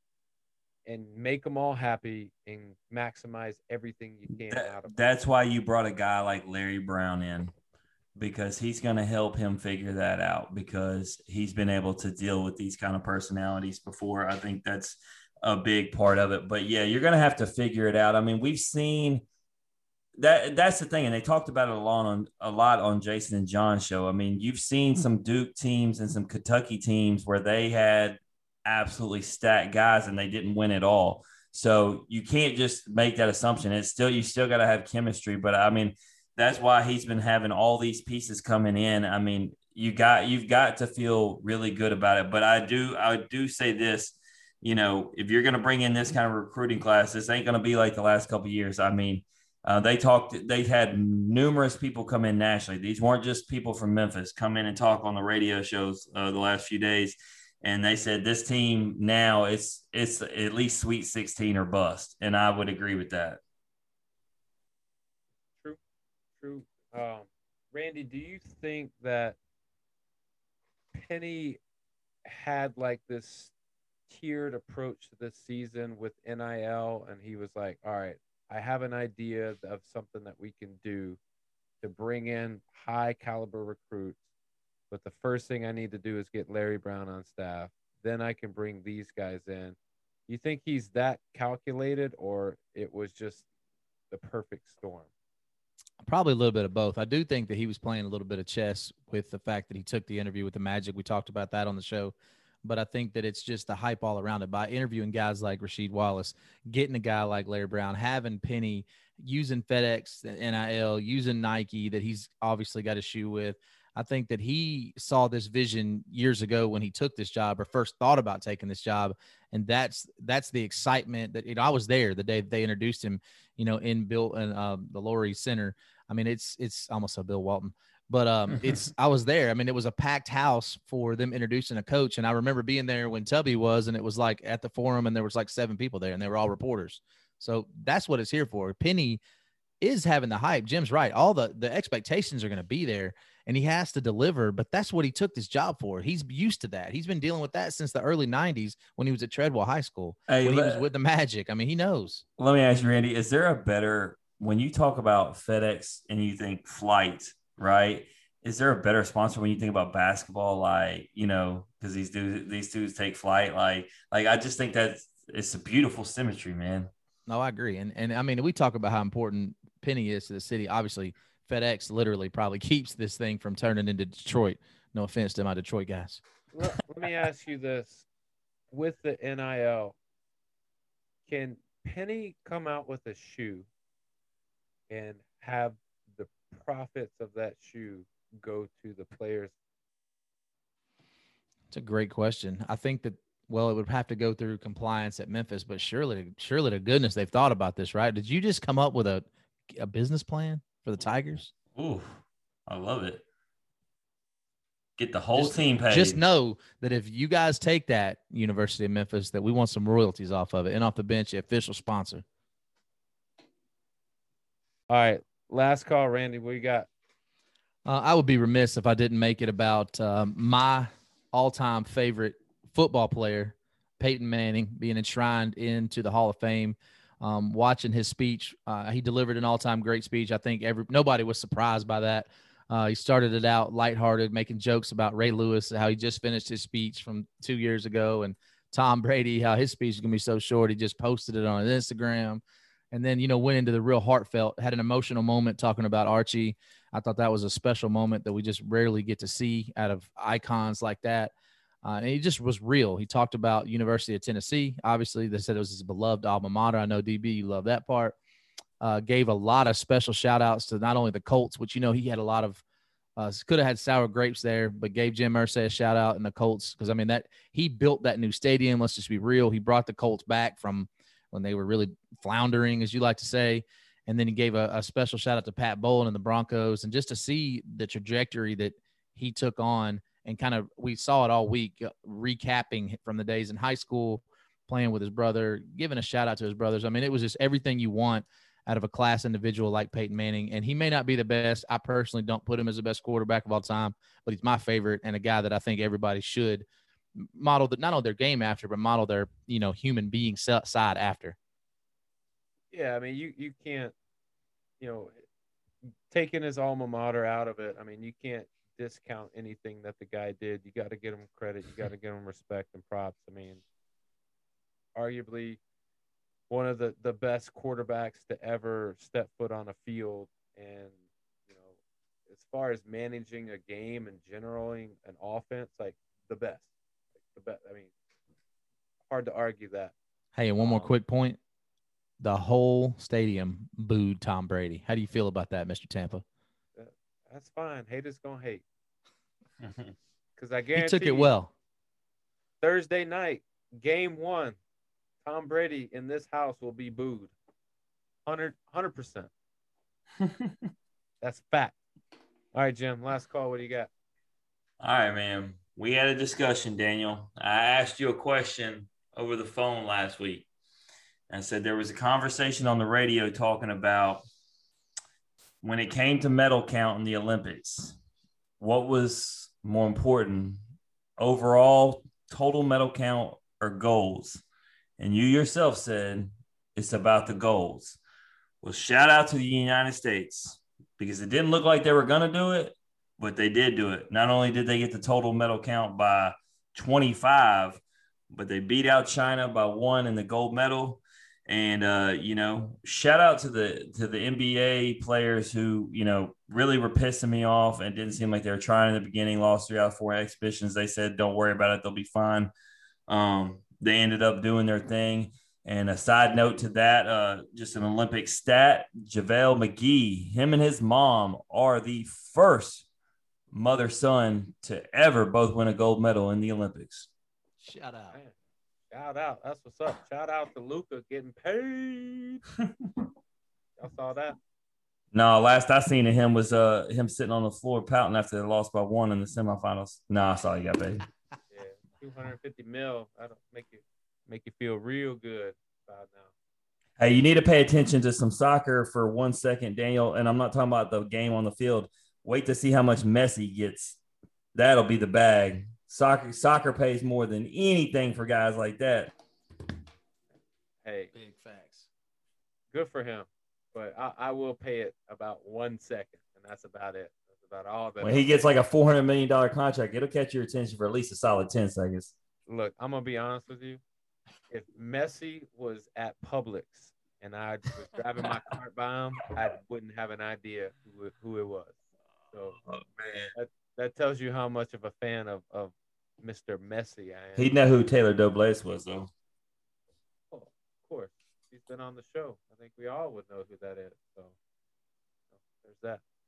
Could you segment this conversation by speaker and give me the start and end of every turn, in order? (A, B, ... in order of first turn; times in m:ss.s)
0:00.8-0:04.9 A
0:04.5-0:07.5 B
0:08.2-0:19.2 B
0:20.2-1:03.4 B
1:06.4-1:09.4 A
1:10.9-1:11.6 A
1:12.2-1:13.5 A
1:14.1-1:21.2 A
1:21.8-1:24.2 A
1:24.9-1:29.8 A
1:30.3-1:33.4 A
1:34.1-1:35.1 A
1:36.0-1:42.1 C
1:42.6-2:19.2 C
2:19.8-2:32.2 C
2:30.3-2:30.8 B
2:32.4-2:46.9 B
2:47.3-2:56.2 C
2:56.5-2:58.0 A
2:58.7-3:00.0 A
3:01.2-3:03.7 A
3:04.9-3:09.5 A
3:11.7-3:21.5 C
3:21.8-3:23.2 B
3:25.0-3:26.2 B
3:25.3-3:32.2 C
3:34.9-3:36.9 A
3:37.8-4:11.3 C
4:11.8-4:18.2 C
4:18.8-4:22.6 C
4:23.2-4:56.6 C
4:57.2-5:01.4 C
5:02.7-5:03.9 A
5:04.8-5:05.2 A
5:06.1-5:13.6 A
5:14.9-5:15.6 A
5:16.5-5:21.0 A
5:21.5-5:21.7 A
5:22.3-5:26.7 A
5:27.3-5:27.9 A
5:29.1-5:29.9 A
5:30.3-5:31.4 C
5:30.6-5:30.9 A
5:32.2-5:36.2 C
5:36.8-5:38.6 A
5:40.4-5:41.3 A
5:40.8-5:41.5 C
5:42.6-5:44.6 A
5:45.2-5:47.3 A
5:48.2-5:49.3 A
5:50.2-5:50.5 B
5:51.2-5:51.8 A
5:52.5-5:53.9 A
5:54.8-6:00.4 B
6:01.3-6:04.2 B
6:05.6-6:08.0 B
6:08.6-6:10.6 B
6:11.2-6:14.4 B
6:15.0-6:18.0 B
6:18.6-6:42.5 B
6:43.1-6:52.8 B
6:53.5-6:57.1 B
6:57.6-6:58.2 C
6:58.9-7:02.4 A
7:03.8-7:04.4 A
7:05.1-7:11.0 B
7:11.5-7:16.3 A
7:17.0-7:24.0 B
7:24.5-7:29.1 B
7:30.8-7:31.1 A
7:31.1-7:31.9 C
7:32.7-7:38.3 A
7:38.0-7:42.1 B
7:42.5-7:43.8 A
7:44.5-7:51.8 A
7:52.3-7:52.6 A
7:53.0-7:53.3 B
7:53.3-7:57.5 A
7:57.4-7:59.1 B
8:00.3-8:04.3 A
8:05.5-8:06.0 A